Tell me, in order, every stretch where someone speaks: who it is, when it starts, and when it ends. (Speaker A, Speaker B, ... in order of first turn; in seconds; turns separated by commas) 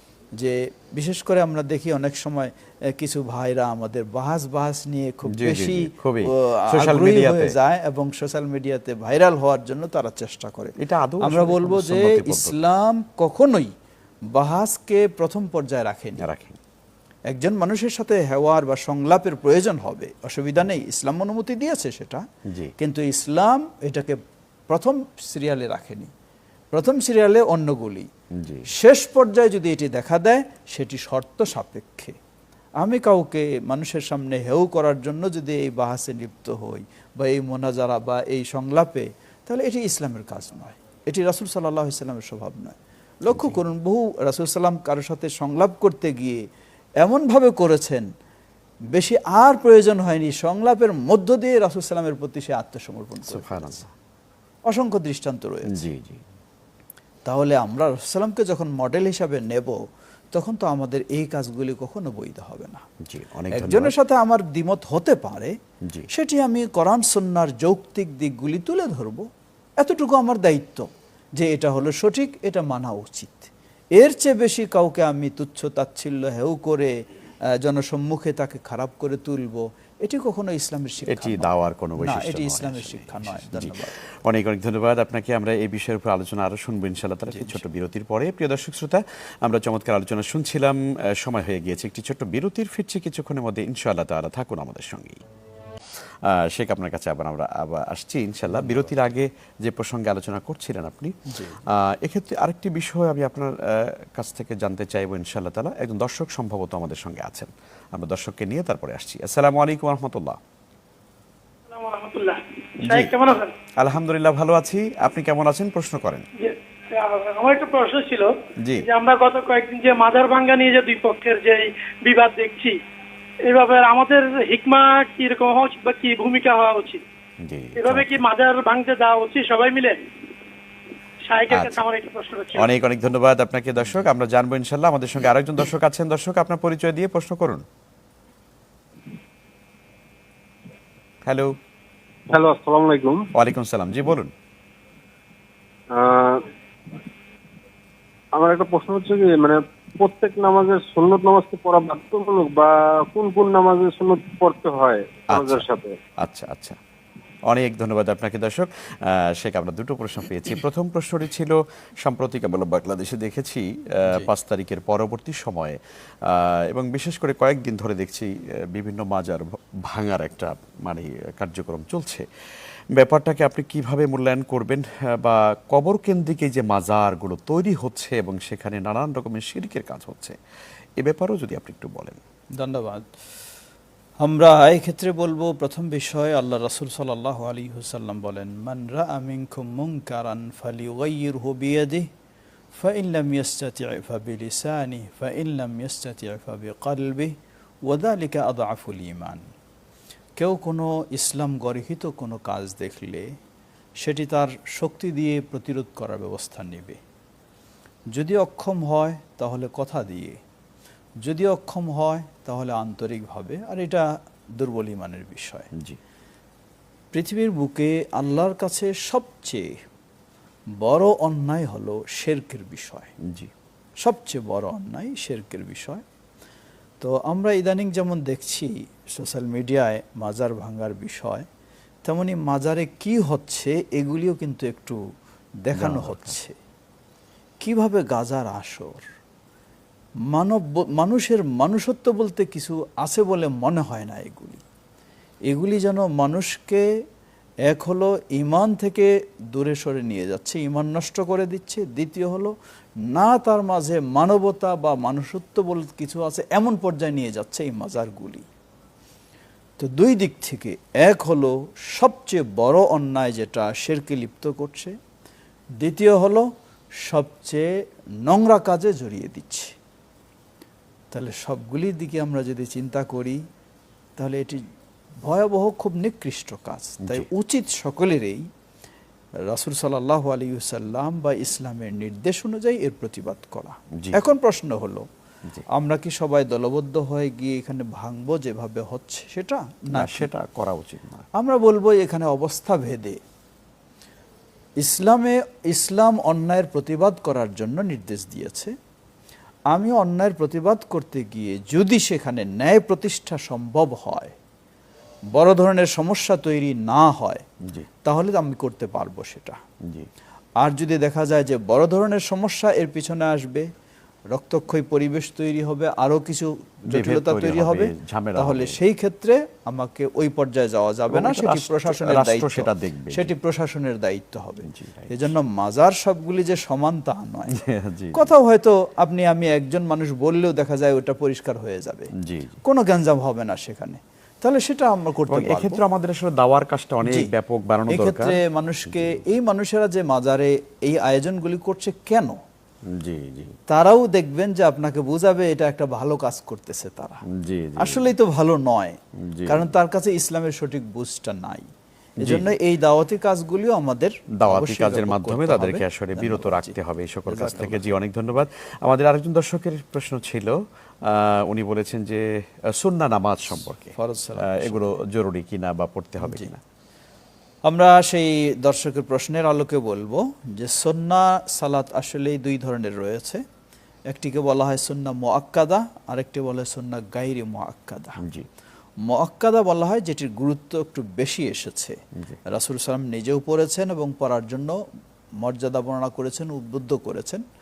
Speaker A: 0.4-13.7, Speaker B: 5.3-7.6, Speaker B: 10.8-12.6, Speaker A: 14.3-16.2, Speaker B: 16.2-16.6, Speaker A: 17.3-22.2, Speaker B: 22.5-22.7, Speaker A: 22.8-24.2, Speaker A: 24.7-26.1, Speaker A: 26.7-28.1, Speaker B: 28.4-28.7, Speaker A: 28.7-32.1, Speaker A: 32.8-46.4, Speaker B: 43.3-43.6, Speaker A: 47.0-48.0, Speaker A: 48.9-53.8, Speaker B: 53.3-53.9, Speaker A: 54.7-55.8, Speaker B: 55.7-56.2, Speaker A: 57.2-59.8, Speaker A: 60.3-62.8, Speaker B: 63.0-64.0, Speaker A: 63.5-65.5, Speaker A: 66.1-69.2, Speaker A: 69.8-76.9, Speaker A: 77.6-84.0, Speaker B: 81.1-95.2, Speaker A: 87.3-87.6, Speaker B: 96.3-101.1, Speaker A: 98.5-99.0, Speaker A: 101.3-101.6, Speaker B: 101.7-110.4, Speaker C: 111.7-113.5, Speaker B: 112.9-116.2, Speaker C: 116.4-122.8, Speaker C: 123.4-127.0, Speaker B: 127.4-128.2, Speaker C: 127.8-130.1, Speaker C: 131.2-132.7, Speaker B: 131.5-131.8, Speaker B: 132.5-137.6, Speaker B: 141.2-141.5, Speaker D: 142.3-143.3, Speaker B: 143.3-144.3, Speaker D: 145.9-146.4, Speaker D: 148.3-155.9, Speaker B: 155.3-155.7, Speaker B: 156.2-156.8, Speaker B: 157.5-172.2, Speaker B: 172.9-180.4, Speaker B: 181.0-182.2, Speaker A: 182.6-183.1, Speaker A: 184.2-192.1, Speaker A: 192.8-197.3, Speaker A: 197.9-199.5, Speaker A: 200.4-203.3, Speaker A: 204.0-207.0, Speaker A: 208.1-210.4, Speaker A: 211.2-214.1, Speaker A: 214.6-215.7, Speaker A: 217.1-219.8, Speaker A: 220.8-223.1, Speaker B: 223.2-223.5, Speaker A: 224.0-226.0, Speaker A: 227.0-231.4, Speaker A: 232.1-235.0, Speaker A: 235.6-236.5, Speaker B: 235.8-236.3, Speaker A: 237.6-239.0, Speaker A: 240.3-244.6, Speaker A: 245.5-246.9, Speaker A: 247.7-252.5, Speaker A: 253.1-258.4, Speaker A: 259.8-264.9, Speaker A: 265.8-266.4, Speaker A: 267.0-267.7, Speaker A: 268.2-269.8, Speaker A: 271.1-273.4, Speaker A: 274.2-274.6, Speaker A: 275.2-278.4, Speaker A: 279.5-285.0, Speaker A: 285.7-290.3, Speaker B: 289.9-291.2, Speaker A: 291.4-293.2, Speaker A: 294.8-298.7, Speaker A: 299.7-304.4, Speaker A: 305.3-307.4, Speaker A: 308.0-309.6, Speaker B: 309.8-310.1, Speaker A: 310.6-313.7, Speaker A: 314.3-327.6, Speaker B: 316.9-318.8, Speaker B: 321.1-323.3, Speaker B: 324.7-325.3, Speaker B: 327.5-328.3, Speaker A: 328.1-332.1, Speaker B: 332.2-332.6, Speaker A: 332.6-335.8, Speaker B: 335.3-339.2, Speaker A: 337.0-337.3, Speaker A: 337.9-342.4, Speaker B: 342.9-343.6, Speaker A: 343.7-347.2, Speaker B: 347.3-348.1, Speaker A: 347.8-351.7, Speaker B: 349.2-349.7, Speaker B: 352.2-352.5, Speaker A: 352.2-356.8, Speaker B: 354.4-366.6, Speaker A: 357.3-358.0, Speaker A: 363.9-365.0, Speaker A: 366.2-366.5, Speaker A: 367.6-373.4, Speaker A: 374.1-378.2, Speaker B: 378.2-378.5, Speaker A: 379.1-382.0, Speaker A: 382.5-384.8, Speaker A: 385.4-387.4